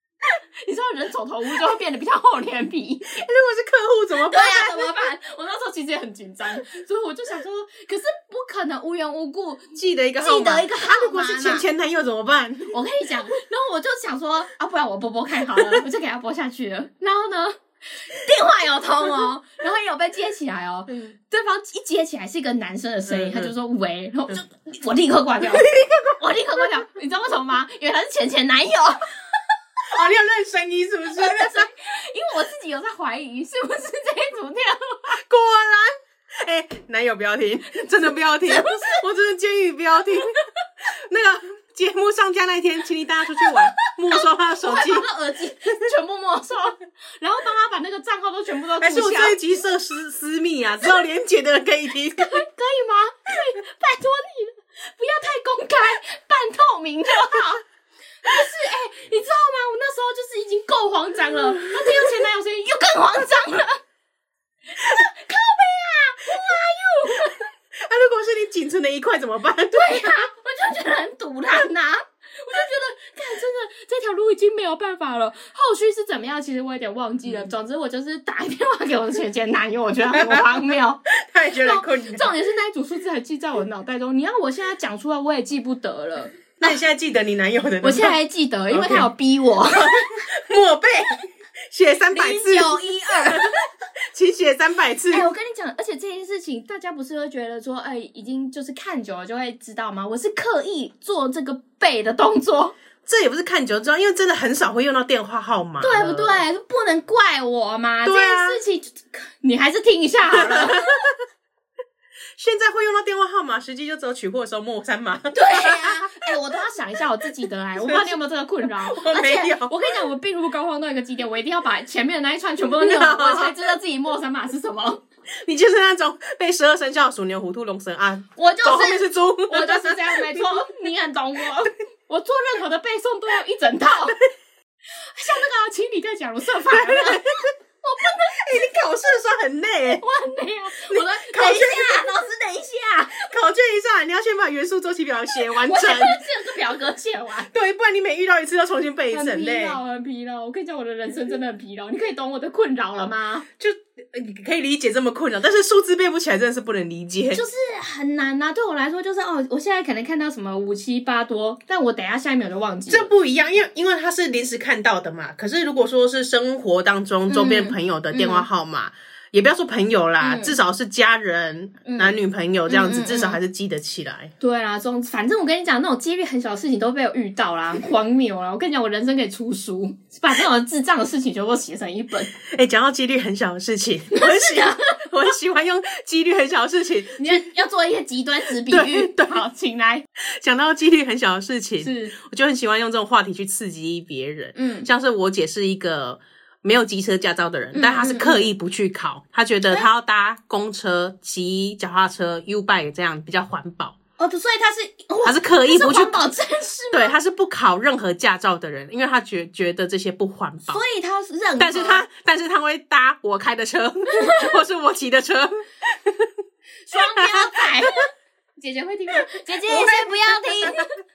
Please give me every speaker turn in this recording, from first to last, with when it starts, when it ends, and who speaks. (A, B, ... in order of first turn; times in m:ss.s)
0:00.6-0:03.2 A
0:03.2-0:04.9 B
0:04.2-0:11.7 A
0:09.8-0:12.7 B
0:12.6-0:29.1 A
0:20.9-0:21.2 B
0:23.1-0:23.5 B
0:25.4-0:26.2 B
0:29.9-0:31.7 B
0:31.1-0:35.2 A
0:35.2-0:40.3 B
0:38.4-0:39.0 A
0:40.8-0:45.1 B
0:43.4-0:49.4 A
0:48.8-0:52.4 B
0:52.2-0:57.6 A
0:58.2-1:03.8 A
1:04.7-1:07.5 A
1:07.7-1:10.1 B
1:09.7-1:21.0 A
1:17.2-1:17.5 B
1:20.1-1:20.5 B
1:21.1-1:22.3 B
1:21.6-1:26.8 A
1:26.6-1:28.1 B
1:27.8-1:30.2 A
1:28.7-1:29.1 B
1:29.7-1:33.5 B
1:32.1-1:33.6 A
1:34.1-1:35.3 B
1:35.1-1:42.8 A
1:43.1-1:46.4 B
1:45.8-1:51.0 A
1:48.0-1:48.6 B
1:50.4-1:51.1 B
1:52.4-1:56.1 B
1:55.3-2:05.0 A
1:57.8-1:59.8 B
2:02.8-2:03.5 B
2:05.4-2:10.7 B
2:08.4-2:14.2 A
2:15.1-2:18.8 A
2:16.7-2:17.5 B
2:18.3-2:20.0 B
2:20.0-2:23.3 A
2:20.9-2:22.1 B
2:23.2-2:26.2 B
2:25.5-2:27.5 A
2:27.5-2:29.8 B
2:29.1-2:33.5 A
2:33.6-2:37.4 B
2:37.3-2:43.1 A
2:42.9-2:54.3 B
2:47.3-2:48.5 A
2:50.2-2:50.6 A
2:51.8-2:52.2 A
2:52.7-2:53.4 A
2:54.4-3:02.3 A
3:02.4-3:07.4 B
3:04.1-3:05.0 A
3:07.2-3:10.0 A
3:08.6-3:09.4 B
3:10.2-3:24.0 B
3:11.8-3:12.2 A
3:14.6-3:14.9 A
3:17.7-3:18.5 A
3:24.2-3:27.2 A
3:25.2-3:26.2 B
3:26.9-3:30.8 B
3:30.7-3:32.1 A
3:31.6-3:36.3 B
3:34.1-3:34.6 A
3:36.9-3:41.0 A
3:36.9-3:37.9 B
3:39.3-3:40.9 B